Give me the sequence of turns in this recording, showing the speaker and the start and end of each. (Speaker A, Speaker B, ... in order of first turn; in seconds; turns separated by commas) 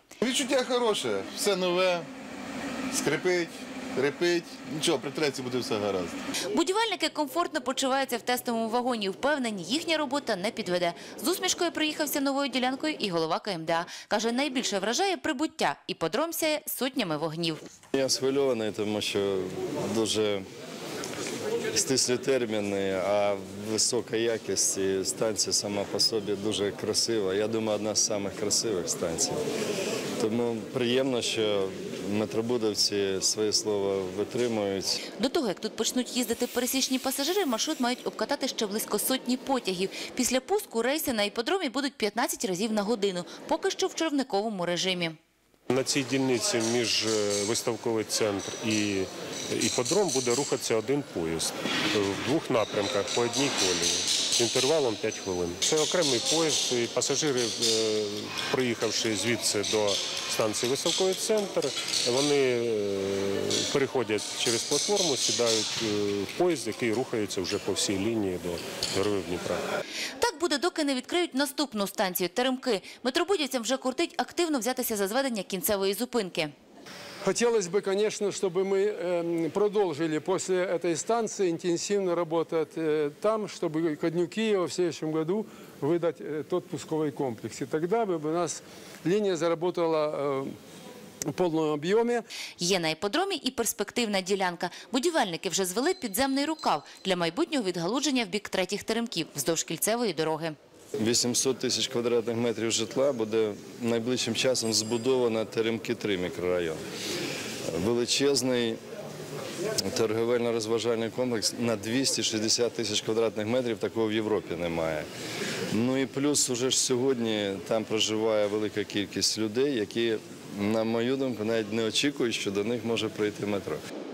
Speaker A: 0.3-2.0, Speaker A: 2.9-3.4, Speaker A: 4.0-6.1, Speaker B: 6.5-17.6, Speaker C: 17.9-20.4, Speaker C: 21.7-29.4, Speaker C: 30.2-35.0, Speaker B: 35.2-45.2, Speaker D: 45.7-69.6, Speaker B: 70.2-76.5, Speaker E: 77.2-90.5, Speaker E: 91.3-92.2, Speaker B: 92.6-100.5, Speaker C: 101.0-106.8, Speaker C: 107.7-108.8, Speaker C: 109.8-115.1, Speaker C: 115.7-123.8